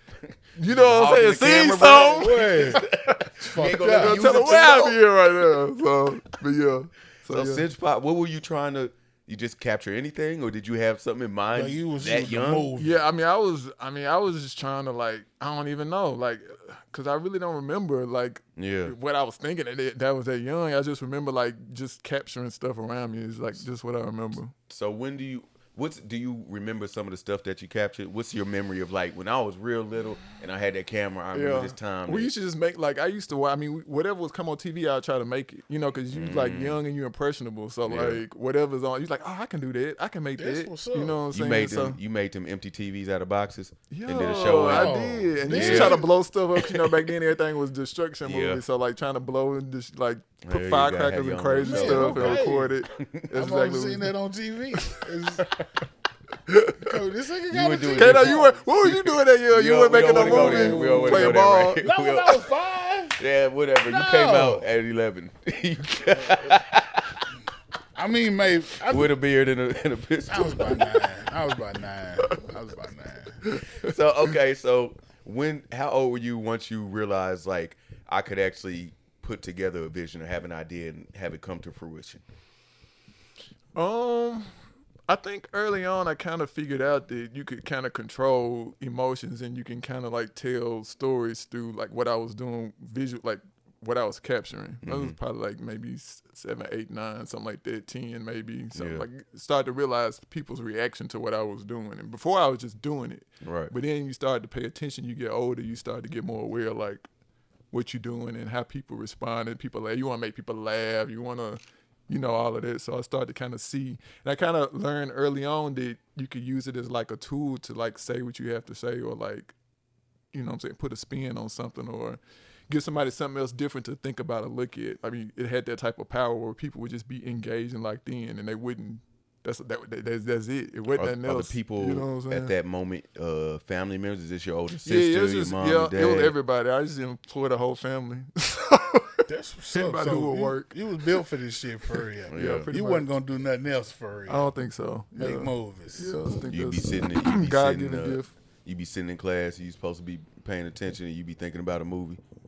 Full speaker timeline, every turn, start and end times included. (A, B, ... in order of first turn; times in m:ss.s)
0:00.6-0:03.2 A
0:00.6-0:05.0 B
0:01.8-0:02.8 C
0:03.4-0:04.3 C
0:04.0-0:07.6 A
0:07.3-0:12.7 B
0:11.5-0:13.0 C
0:12.8-0:24.5 A
0:18.6-0:18.9 B
0:24.7-0:32.3 B
0:31.3-0:42.0 A
0:36.1-0:36.8 B
0:37.8-0:38.2 B
0:40.4-0:41.2 C
0:41.3-0:46.0 B
0:43.9-0:54.1 A
0:44.7-0:46.1 C
0:48.2-0:48.6 B
0:50.4-0:53.2 B
0:51.6-0:52.8 C
0:53.3-0:55.6 C
0:56.5-0:56.9 A
0:56.8-0:58.7 C
0:57.5-1:02.5 B
0:57.9-1:01.8 A
1:00.0-1:03.2 C
1:03.1-1:07.2 B
1:03.8-1:04.7 C
1:08.0-1:09.2 C
1:08.9-1:10.9 B
1:10.3-1:13.5 C
1:13.4-1:13.9 A
1:13.8-1:22.2 B
1:23.8-1:24.5 A
1:25.1-1:47.0 A
1:34.8-1:35.2 B
1:38.8-1:39.1 B
1:43.4-1:43.7 B
1:47.7-1:59.6 A
2:00.3-2:12.5 A
2:10.9-2:16.4 B
2:14.8-2:21.2 A
2:19.3-2:24.6 C
2:22.0-2:23.1 A
2:22.3-2:22.7 B
2:24.3-2:28.3 A
2:25.2-2:26.4 C
2:26.5-2:32.2 B